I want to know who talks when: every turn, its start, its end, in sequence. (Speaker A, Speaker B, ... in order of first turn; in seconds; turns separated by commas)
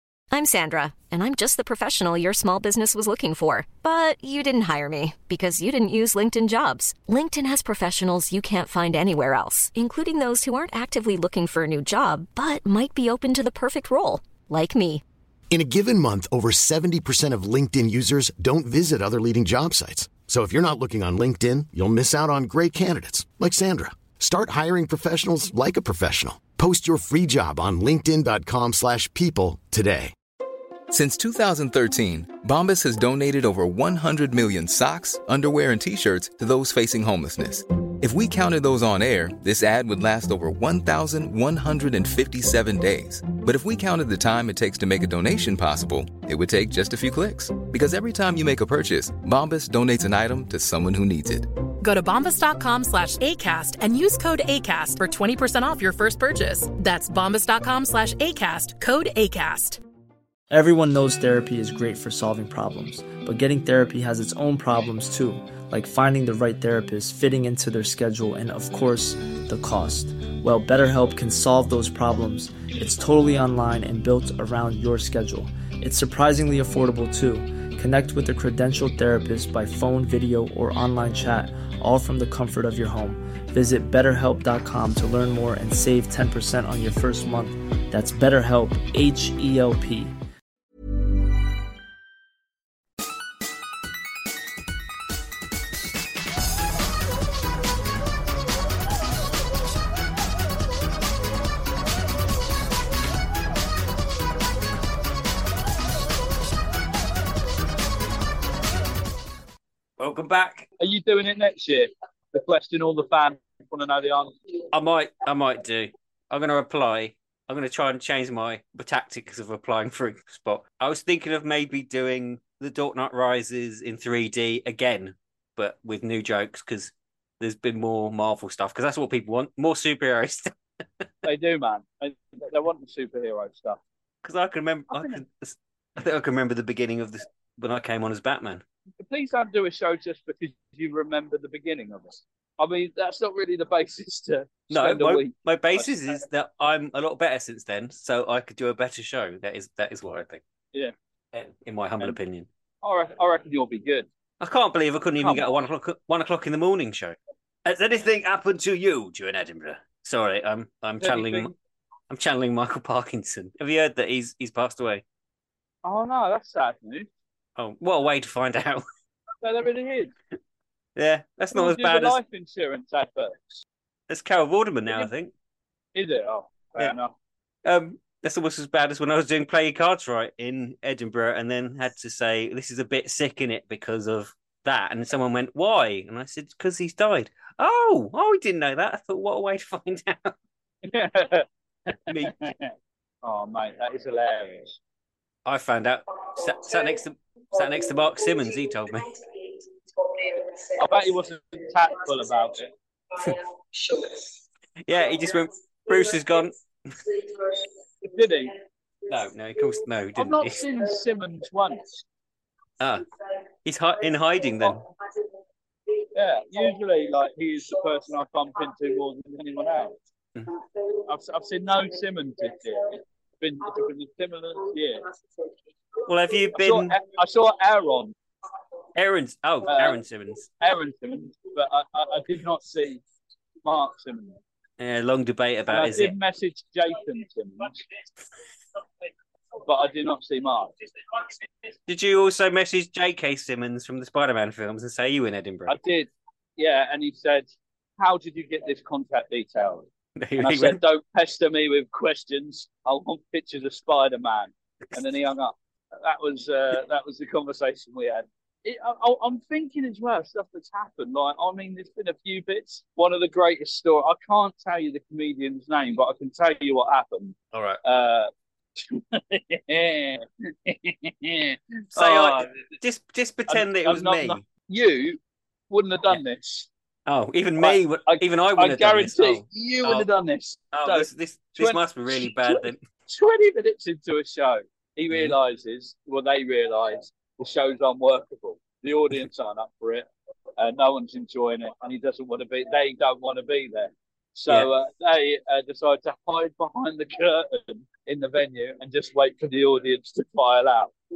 Speaker A: 0.3-15.0, Speaker B: 15.5-30.1, Speaker C: 30.9-51.5, Speaker D: 51.8-59.8, Speaker E: 60.5-90.2, Speaker F: 110.0-110.7, Speaker G: 110.8-114.3, Speaker F: 114.7-130.5, Speaker G: 131.2-133.8, Speaker F: 134.2-138.6, Speaker G: 134.9-135.2, Speaker G: 139.0-145.9, Speaker F: 144.7-150.4, Speaker F: 151.3-152.5, Speaker G: 152.8-154.1, Speaker F: 154.4-161.5, Speaker G: 155.2-155.7, Speaker G: 161.0-161.5, Speaker F: 162.1-165.0, Speaker G: 165.8-167.1, Speaker F: 167.6-168.8, Speaker G: 169.4-170.1, Speaker F: 170.9-172.2, Speaker G: 171.5-173.6, Speaker F: 174.1-175.3, Speaker G: 175.9-177.1, Speaker F: 177.7-190.3, Speaker G: 190.8-192.7, Speaker F: 192.1-192.3, Speaker G: 193.2-194.8, Speaker F: 195.4-199.1, Speaker G: 200.8-202.7, Speaker F: 204.8-206.5, Speaker G: 208.0-208.6, Speaker F: 209.1-210.6, Speaker G: 210.2-212.0, Speaker F: 212.8-213.1, Speaker F: 213.6-214.8, Speaker G: 216.1-219.9, Speaker G: 220.9-225.1, Speaker F: 226.1-226.9, Speaker G: 226.6-228.1, Speaker F: 228.9-230.5, Speaker G: 229.7-230.0, Speaker G: 230.6-233.0, Speaker G: 233.6-234.4, Speaker F: 234.8-236.1, Speaker G: 235.7-237.8, Speaker G: 239.6-241.4, Speaker F: 241.9-245.8, Speaker G: 245.7-249.9, Speaker F: 250.2-250.8, Speaker G: 250.4-272.6, Speaker F: 267.5-267.8, Speaker F: 271.9-274.4, Speaker G: 273.5-275.2, Speaker G: 275.7-276.7, Speaker F: 277.1-280.1, Speaker G: 277.6-281.1, Speaker F: 280.7-282.8, Speaker G: 281.6-290.1, Speaker F: 285.1-285.4, Speaker G: 290.6-300.9